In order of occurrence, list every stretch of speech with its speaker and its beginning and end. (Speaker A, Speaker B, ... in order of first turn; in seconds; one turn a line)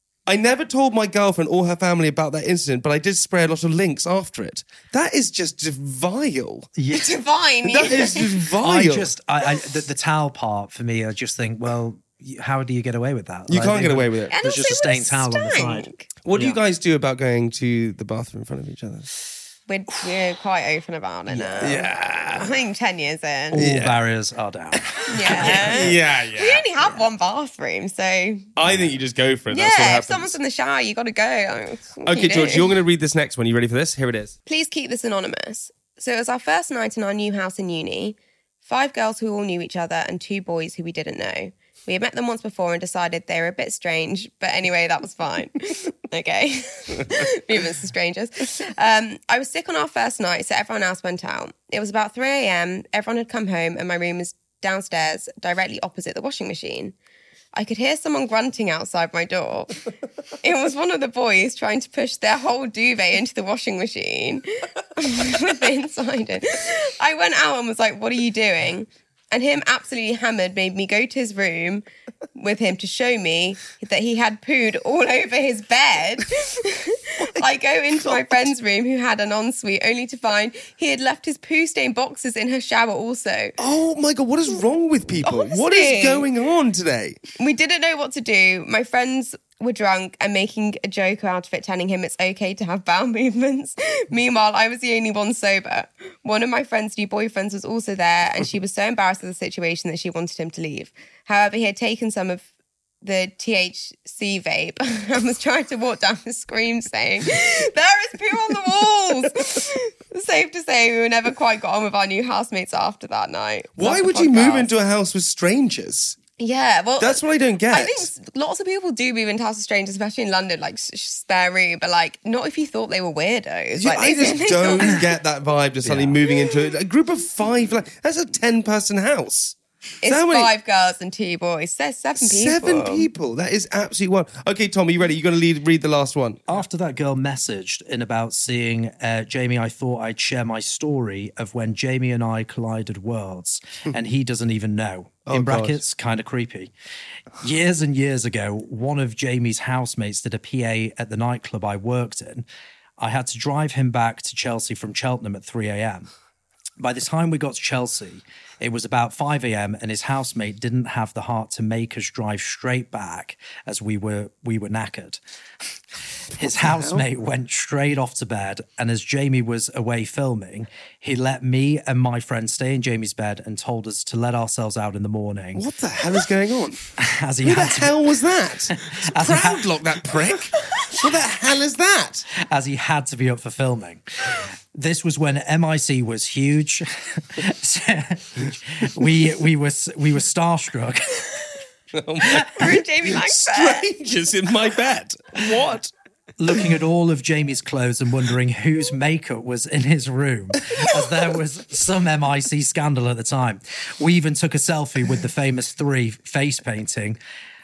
Speaker A: 0.3-6.7
Speaker B: 6.8-7.2
Speaker C: 6.9-8.3
Speaker A: 7.6-9.1
Speaker B: 8.6-16.6
Speaker A: 13.5-14.3
Speaker C: 14.3-16.1
Speaker A: 16.2-19.1
Speaker C: 19.7-23.6
Speaker B: 21.3-21.9
Speaker A: 21.6-22.5
Speaker B: 23.5-26.0
Speaker A: 23.6-24.0
Speaker C: 25.1-28.5
Speaker A: 25.2-26.6
Speaker A: 28.6-30.4
Speaker B: 28.7-28.9
Speaker C: 29.5-32.7
Speaker A: 32.0-34.3
Speaker C: 34.5-56.9
Speaker C: 57.5-59.8
Speaker C: 60.4-83.5
Speaker A: 83.6-87.2
Speaker C: 85.2-86.3
Speaker C: 87.3-102.4
Speaker C: 103.0-114.7
Speaker A: 113.8-116.2
Speaker C: 116.4-125.0
Speaker A: 117.0-118.1
Speaker A: 123.8-130.5
Speaker B: 125.8-126.2
Speaker C: 130.0-133.1
Speaker A: 132.2-136.4
Speaker B: 136.5-146.7
Speaker A: 145.3-145.8
Speaker B: 147.4-152.4
Speaker B: 153.0-156.1
Speaker B: 156.8-165.2
Speaker B: 166.3-175.6
Speaker A: 166.4-167.0
Speaker A: 175.5-176.8
Speaker B: 177.0-178.1
Speaker A: 177.4-182.3
Speaker B: 178.7-180.5
Speaker B: 182.4-191.4
Speaker A: 191.9-195.9
Speaker C: 192.2-193.8
Speaker B: 196.4-207.2